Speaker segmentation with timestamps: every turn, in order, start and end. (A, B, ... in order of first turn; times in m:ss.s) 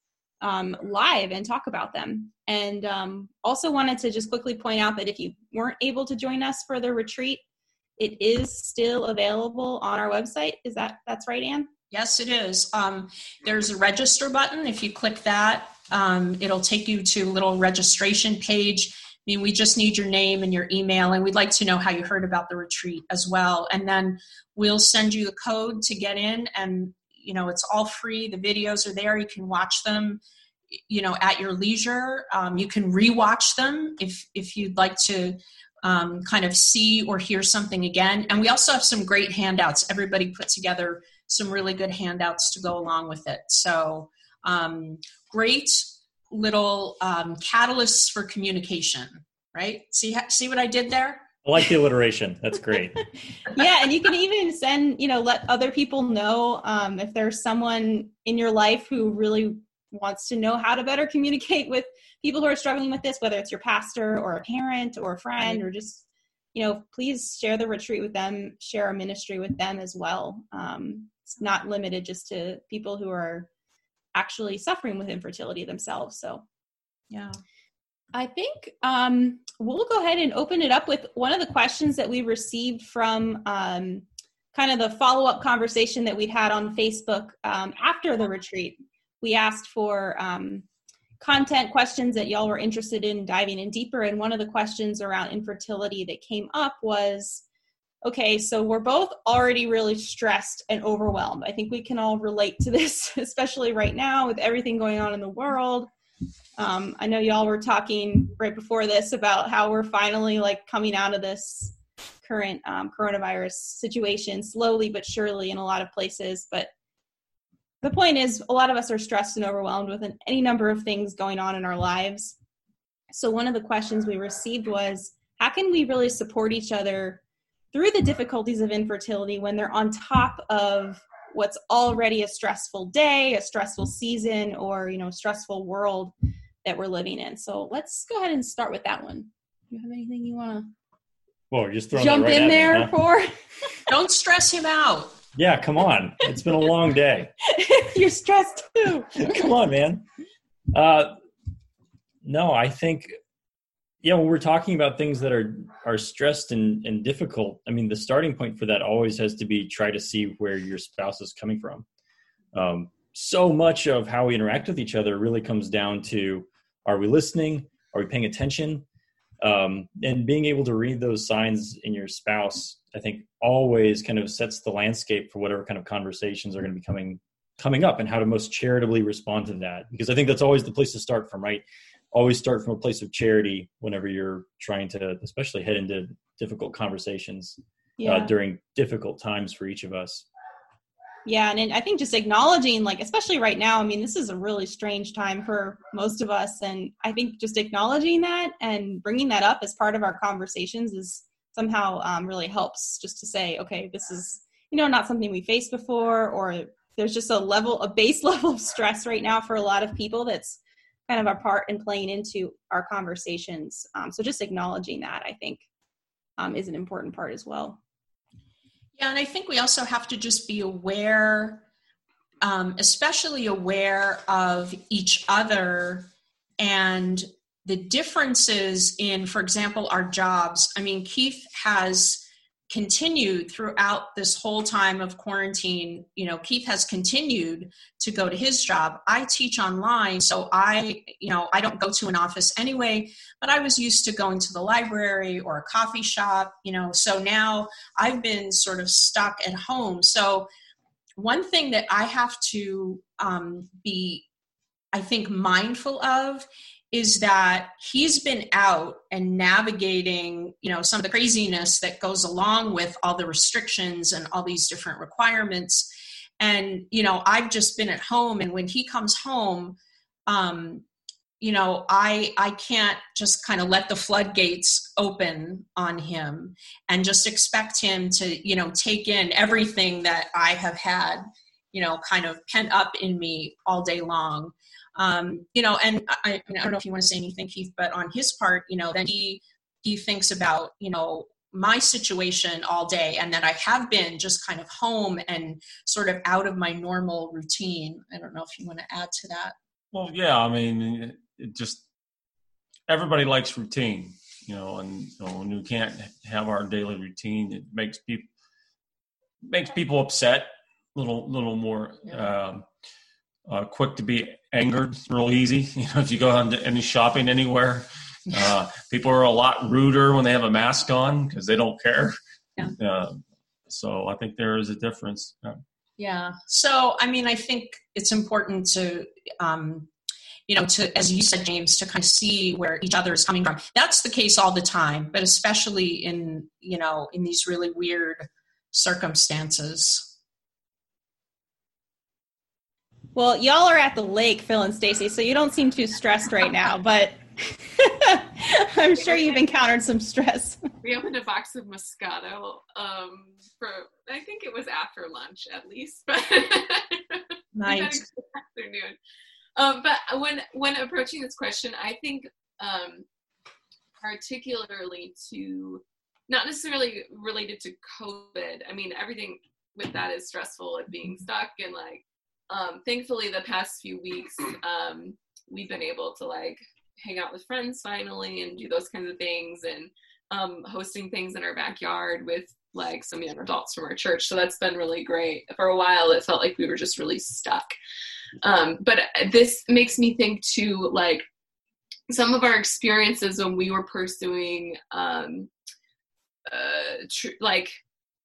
0:00.4-0:07.4 A
0:08.0-0:11.7 A
0:11.9-0:30.2 B
0:30.9-0:51.3 B
0:51.4-0:53.0 C
0:53.4-1:13.5 A
1:14.1-1:16.4 A
1:18.1-1:30.6 A
1:31.2-1:37.4 A
1:38.0-1:45.9 A
1:46.6-1:56.7 A
1:57.8-2:02.4 A
2:03.1-2:07.2 A
2:07.7-2:16.1 A
2:16.6-2:20.7 A
2:21.5-2:22.9 C
2:21.9-2:23.4 A
2:23.9-2:25.2 B
2:25.3-2:27.3 C
2:27.4-2:29.5 A
2:29.2-2:30.0 C
2:30.7-2:31.2 C
2:32.2-2:33.1 C
2:34.0-2:41.8 C
2:42.5-2:48.8 C
2:49.4-3:10.3 C
3:08.0-3:08.3 A
3:11.2-3:35.6 A
3:36.4-3:37.8 A
3:39.0-3:41.6 B
3:42.4-3:46.1 B
3:46.6-4:10.5 B
4:11.2-4:14.2 B
4:14.9-4:30.8 B
4:31.4-4:59.5 B
4:59.9-5:01.8 D
5:02.9-5:08.3 D
5:09.4-5:12.7 D
5:13.4-5:25.6 D
5:26.0-5:29.9 B
5:30.5-5:40.1 B
5:43.1-5:50.6 A
5:50.8-5:58.9 E
5:57.5-5:58.0 B
5:59.6-6:03.0 E
6:04.0-6:27.7 E
6:28.4-6:31.2 E
6:32.1-6:35.5 E
6:36.5-6:37.7 E